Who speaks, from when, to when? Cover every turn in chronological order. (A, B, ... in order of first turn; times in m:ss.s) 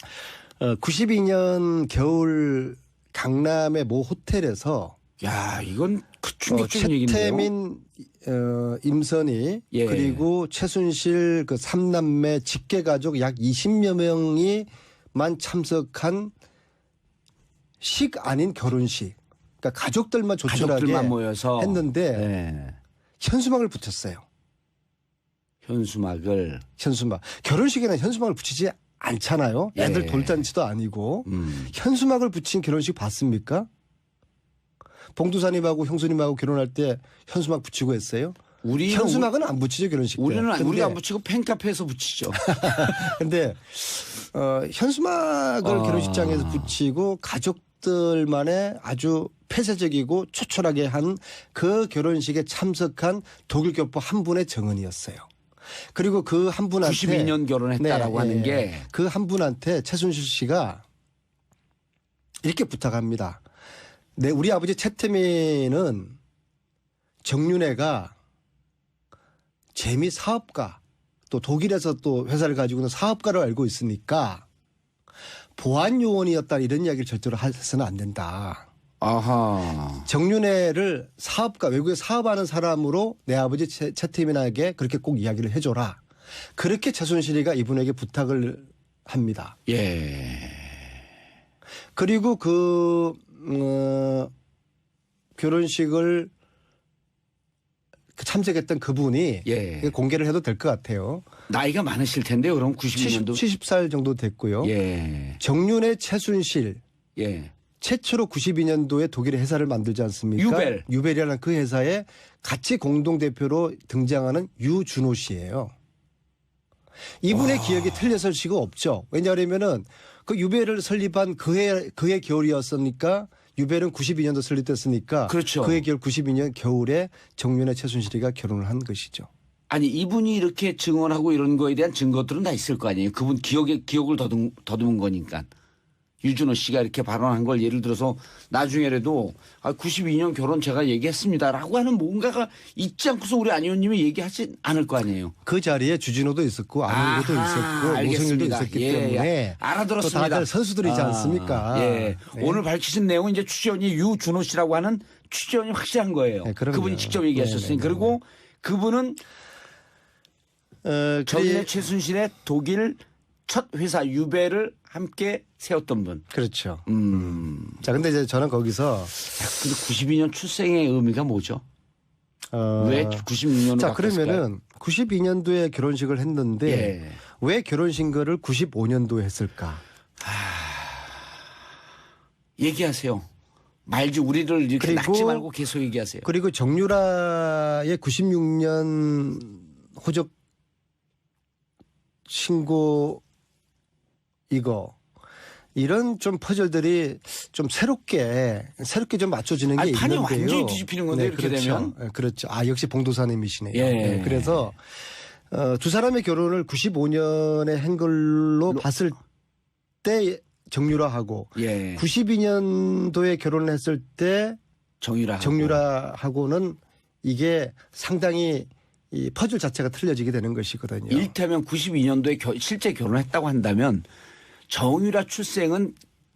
0:00.6-0:05.0 A
0:05.2-0:07.5 B
0:06.5-0:16.3 A
0:09.7-0:10.2 B
0:17.8-0:22.3 A
0:20.5-0:22.8 B
0:23.2-0:24.2 A
0:25.6-0:26.6 B
0:26.8-0:33.7 A
0:29.8-0:30.5 B
0:31.2-0:31.7 B
0:35.1-0:41.0 A
0:38.6-0:39.3 B
0:40.2-0:43.2 B
0:42.4-0:55.3 A
0:45.6-0:46.7 B
0:55.9-1:00.8 A
0:56.8-0:58.9 B
1:02.4-1:03.4 A
1:04.2-1:06.2 A
1:07.2-1:08.1 A
1:09.7-1:14.4 A
1:15.6-1:18.6 A
1:19.0-1:20.1 B
1:20.1-1:26.0 A
1:26.6-1:29.6 A
1:29.7-1:30.9 B
1:32.0-1:34.3 A
1:35.4-1:36.3 A
1:38.2-1:41.3 A
1:39.4-1:39.9 B
1:41.5-1:43.4 B
1:43.0-1:44.7 A
1:44.6-1:45.4 B
1:45.4-1:46.8 A
1:47.2-1:47.5 B
1:47.8-1:55.7 A
1:50.4-1:50.8 B
1:57.2-2:09.3 A
1:57.3-1:58.0 B
2:05.3-2:05.8 B
2:09.7-2:15.5 B
2:16.2-2:25.3 B
2:25.4-2:32.6 A
2:26.9-2:39.2 B
2:36.4-2:38.2 A
2:40.8-2:41.7 A
2:41.3-2:46.2 B
2:46.3-2:49.1 A
2:46.9-2:47.8 B
2:49.2-2:51.6 B
2:52.5-2:59.8 A
2:52.8-2:54.4 B
2:56.6-2:57.2 B
3:00.2-3:01.3 B
3:02.6-3:03.3 B
3:03.8-3:06.3 B
3:04.8-3:05.5 A
3:06.2-3:10.3 A
3:12.3-3:13.2 A
3:14.5-3:15.0 A
3:15.7-3:24.8 A
3:19.8-3:21.9 B
3:23.7-3:24.7 B
3:25.5-3:29.2 A
3:30.0-3:34.6 A
3:31.6-3:32.0 B
3:35.0-3:35.8 B
3:35.4-3:41.3 A
3:41.1-3:44.1 B
3:44.7-3:45.9 B